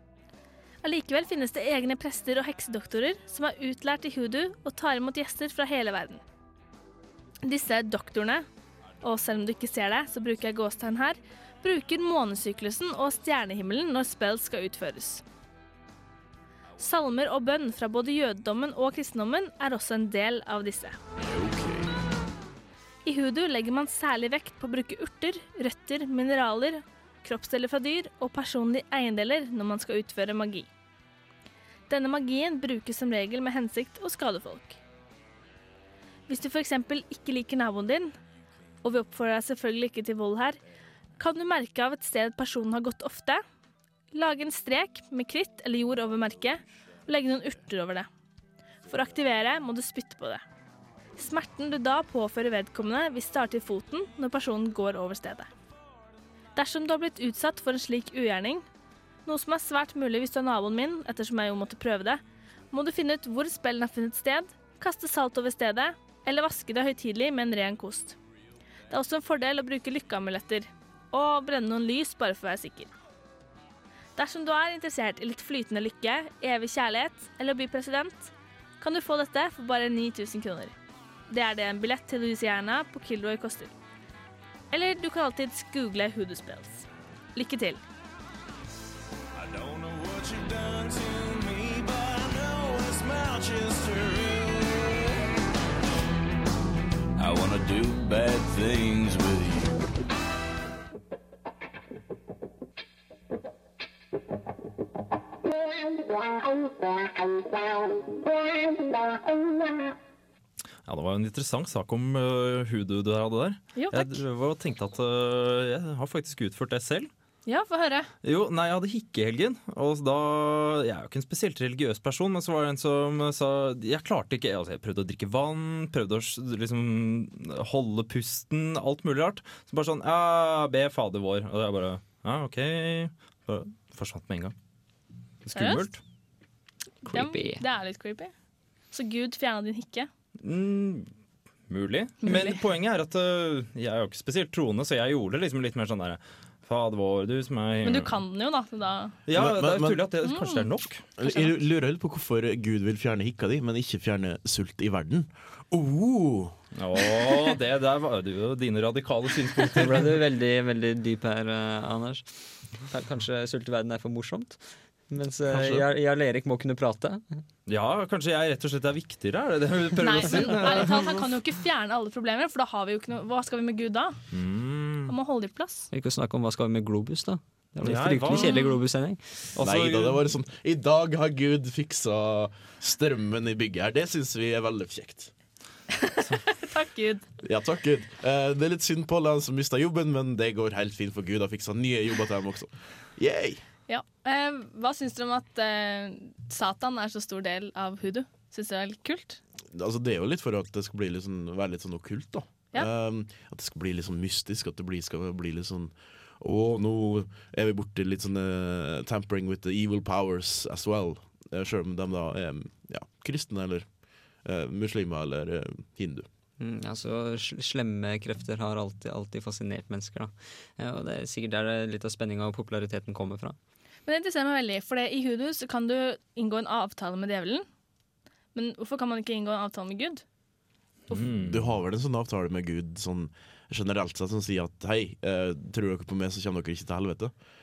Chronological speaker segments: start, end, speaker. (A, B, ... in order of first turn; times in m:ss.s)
0:00.8-0:06.2 A
0:07.4-0:08.5 A
0:09.0-0:15.2 A
0:16.8-0:21.0 A
0:21.2-0:22.0 B
0:23.0-0:30.7 A
0:31.9-0:34.8 A
0:36.3-0:38.1 A
0:38.8-0:40.6 A
0:41.2-0:43.4 A
0:44.1-0:48.1 A
0:48.9-0:50.4 A
0:51.2-0:55.5 A
0:56.6-0:58.7 A
0:59.2-1:02.2 A
1:02.7-1:08.2 A
1:08.9-1:12.9 A
1:14.2-1:20.8 A
1:21.3-1:23.7 A
1:24.7-1:27.8 A
1:29.4-1:35.2 B
1:37.2-1:39.8 B
1:50.8-1:57.1 C
1:53.8-1:54.2 A
1:57.5-1:58.1 A
1:58.2-2:14.5 C
2:15.4-2:16.0 C
2:15.5-2:15.9 A
2:17.0-2:17.6 D
2:17.1-2:18.3 A
2:18.9-2:20.1 A
2:20.4-2:21.1 C
2:21.7-2:28.2 C
2:22.2-2:22.6 A
2:27.8-2:29.2 A
2:29.3-2:31.0 C
2:29.3-2:30.0 E
2:30.2-2:30.7 A
2:31.2-2:36.5 E
2:31.2-2:31.5 A
2:36.8-2:40.2 C
2:39.8-2:47.4 D
2:45.5-2:45.8 E
2:47.7-2:51.3 C
2:50.0-2:54.2 A
2:54.3-2:55.1 C
2:55.1-2:55.9 A
2:55.9-2:59.5 D
2:57.8-2:58.6 C
2:58.3-2:58.8 A
2:59.5-3:00.2 C
2:59.6-3:05.3 E
3:06.0-3:07.3 A
3:07.4-3:13.6 E
3:13.9-3:19.4 A
3:19.7-3:33.9 E
3:34.4-3:36.3 E
3:36.6-3:43.6 D
3:44.1-3:47.7 A
3:48.5-3:50.2 A
3:51.1-3:51.7 C
3:51.3-3:57.3 E